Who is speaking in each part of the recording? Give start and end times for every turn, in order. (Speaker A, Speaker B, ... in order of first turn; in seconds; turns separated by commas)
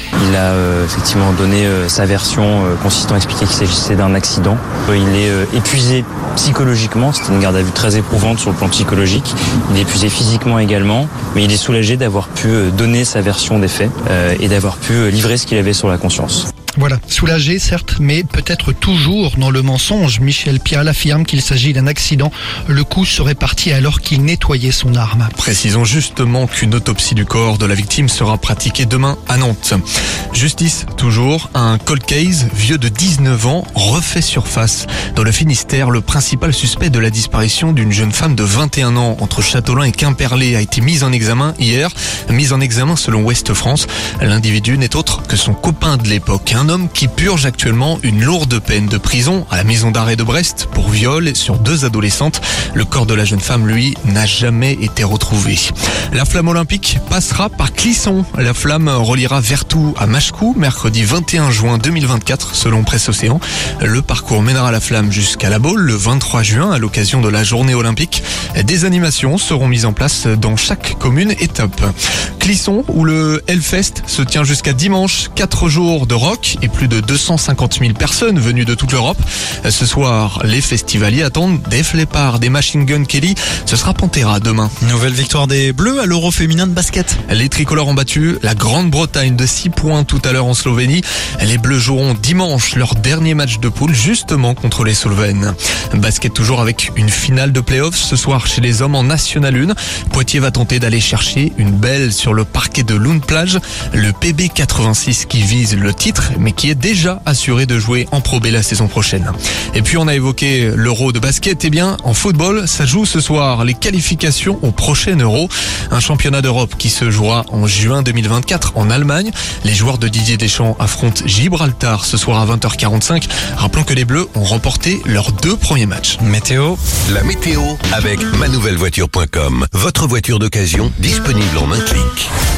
Speaker A: 0.2-16.5, Speaker B: 16.8-25.3, Speaker C: 25.4-29.8, Speaker C: 30.3-84.7, Speaker D: 84.8-87.2, Speaker C: 87.3-126.2, Speaker D: 126.2-126.8, Speaker E: 127.1-132.3